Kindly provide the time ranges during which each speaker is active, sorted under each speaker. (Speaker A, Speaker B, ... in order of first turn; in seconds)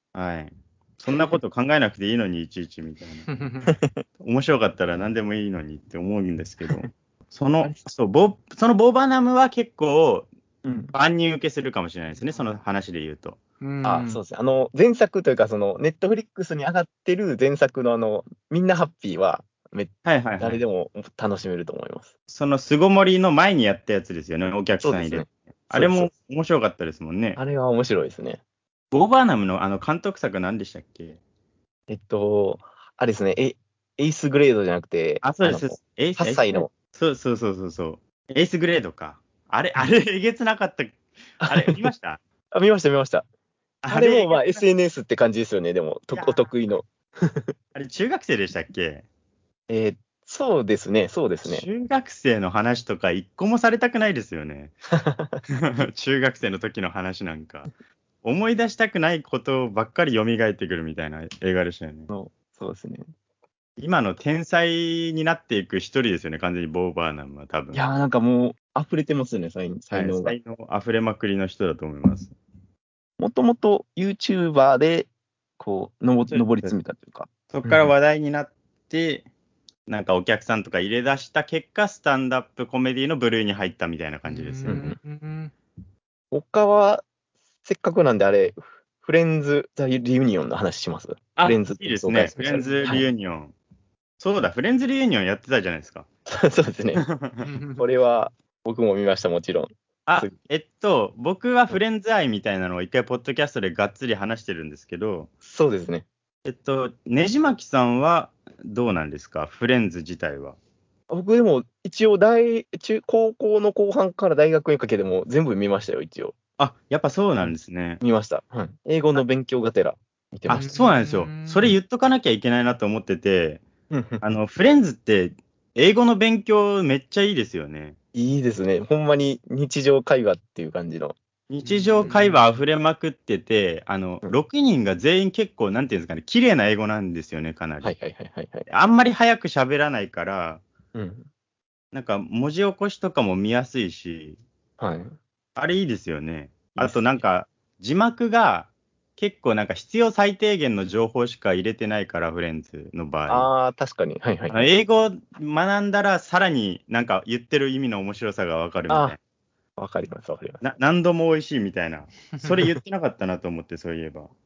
Speaker A: 0.1-3.2, 4.2-10.3, 10.9-13.4, 20.0-20.6, 22.3-27.4, 28.9-31.2, 35.2-42.2, 43.8-44.6, 46.1-46.5, 47.7-49.0, 51.4-54.7, 55.5-57.7, 58.2-62.1, 63.8-67.8, 69.9-72.3, 76.3-76.7, 77.5-79.2, 79.8-84.9, 91.4-93.5, 94.2-96.0, 97.0-97.4, 100.0-105.3, 106.4-110.6, 116.6-118.0, 120.5-123.6, 124.2-128.0, 131.5-137.9, 138.7-140.6, 141.9-144.4, 145.6-153.5, 154.5-159.2, 160.6-164.3
Speaker B: 1.1-1.4, 3.6-4.0, 10.6-10.9, 13.8-22.1, 24.8-26.1, 27.4-28.4, 31.9-36.7, 41.4-41.9, 42.5-43.2, 43.9-47.5, 49.7-51.6, 54.9-55.4, 62.1-63.1, 67.7-70.3, 73.2-77.9, 84.7-85.0, 86.3-87.0, 87.6-93.0, 96.3-97.0, 97.8-100.3, 105.4-106.1, 111.1-116.3, 117.4-120.7, 123.9-124.2, 128.1-131.2, 137.8-138.7, 140.9-141.3, 144.8-145.2, 146.8-147.2, 153.3-154.7, 158.9-159.2, 159.8-160.6
Speaker C: 3.3-3.7, 13.6-14.2, 84.2-85.5, 92.3-92.9, 97.4-97.8, 120.5-121.7, 131.6-132.5